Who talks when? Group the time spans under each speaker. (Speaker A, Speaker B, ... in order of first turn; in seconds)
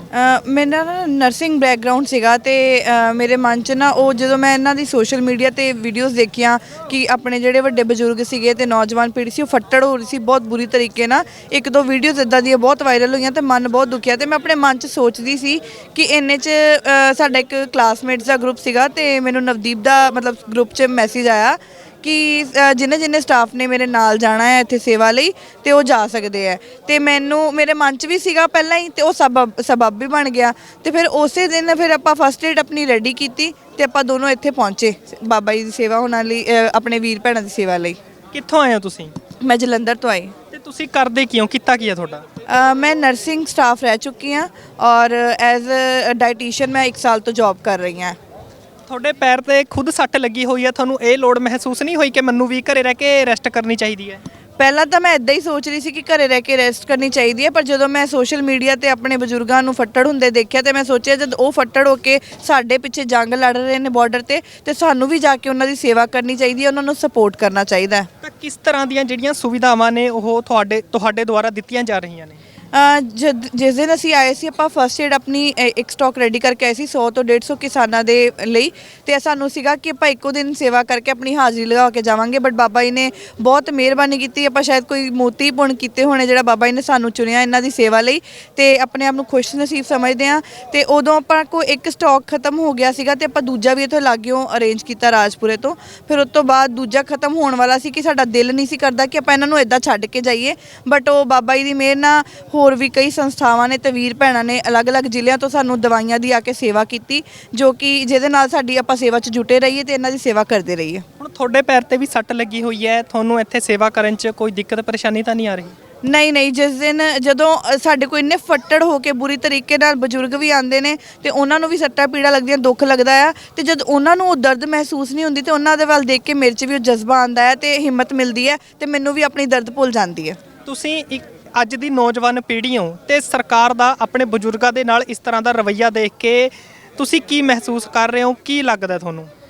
Speaker A: 0.1-38.0, 39.4-40.3, 42.5-48.1, 54.6-68.1, 72.7-111.0, 116.0-130.4
Speaker B: 38.3-39.1, 40.5-42.2, 48.9-54.2, 68.2-72.4, 111.2-115.7, 130.7-139.3